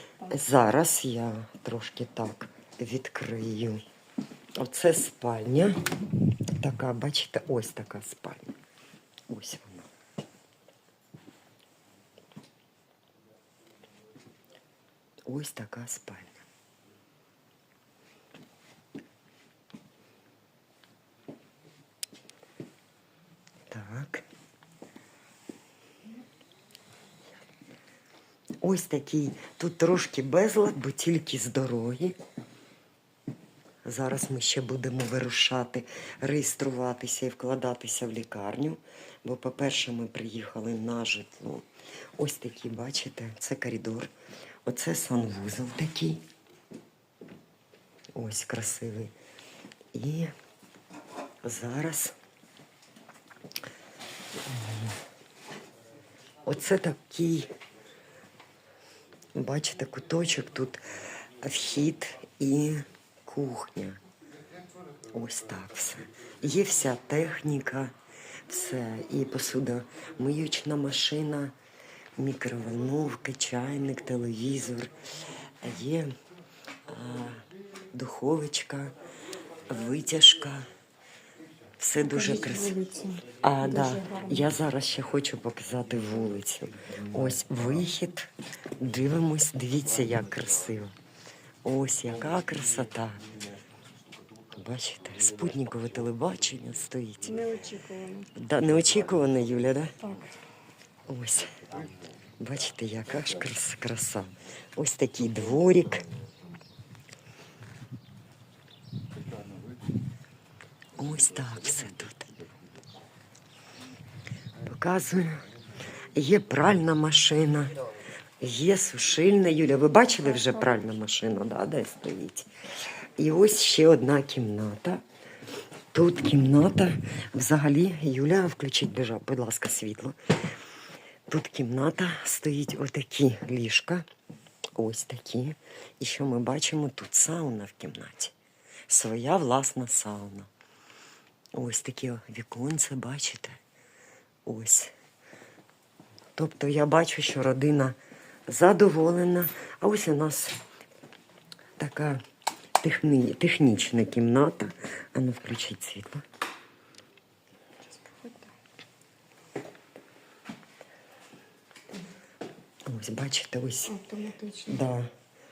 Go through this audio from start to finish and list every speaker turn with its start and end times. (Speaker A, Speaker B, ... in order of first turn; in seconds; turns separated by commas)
Speaker A: 0.2-0.5, Speaker B: 0.3-3.8, Speaker B: 4.6-5.9, Speaker B: 6.5-8.6, Speaker B: 9.3-9.9, Speaker B: 15.3-16.4, Speaker B: 23.7-24.2, Speaker B: 28.6-32.1, Speaker B: 33.8-44.1, Speaker B: 44.6-46.2, Speaker B: 48.1-49.1, Speaker B: 49.9-50.3, Speaker B: 51.4-52.1, Speaker B: 56.4-57.5, Speaker B: 59.3-64.0, Speaker B: 65.1-67.9, Speaker B: 68.5-71.5, Speaker B: 72.2-75.0, Speaker B: 75.6-76.1, Speaker B: 76.9-78.9, Speaker B: 79.6-80.7, Speaker B: 81.8-82.8, Speaker A: 82.0-84.5, Speaker B: 83.4-90.9, Speaker B: 91.6-93.2, Speaker B: 94.5-97.4, Speaker A: 97.2-98.3, Speaker B: 98.3-99.9, Speaker A: 100.0-100.4, Speaker B: 101.1-101.6, Speaker B: 102.4-106.1, Speaker B: 111.0-112.3, Speaker B: 114.6-115.5, Speaker B: 116.1-117.8, Speaker B: 118.4-122.5, Speaker A: 120.2-121.2, Speaker B: 123.2-125.0, Speaker B: 125.9-130.2, Speaker B: 131.3-134.1, Speaker B: 134.8-138.3, Speaker B: 138.9-140.5, Speaker B: 141.5-143.6, Speaker B: 144.4-144.9, Speaker B: 146.3-147.9, Speaker B: 148.5-150.6, Speaker B: 151.8-152.2, Speaker B: 152.8-156.2, Speaker A: 157.8-158.5, Speaker B: 162.8-163.9, Speaker A: 163.8-164.9, Speaker B: 164.7-165.1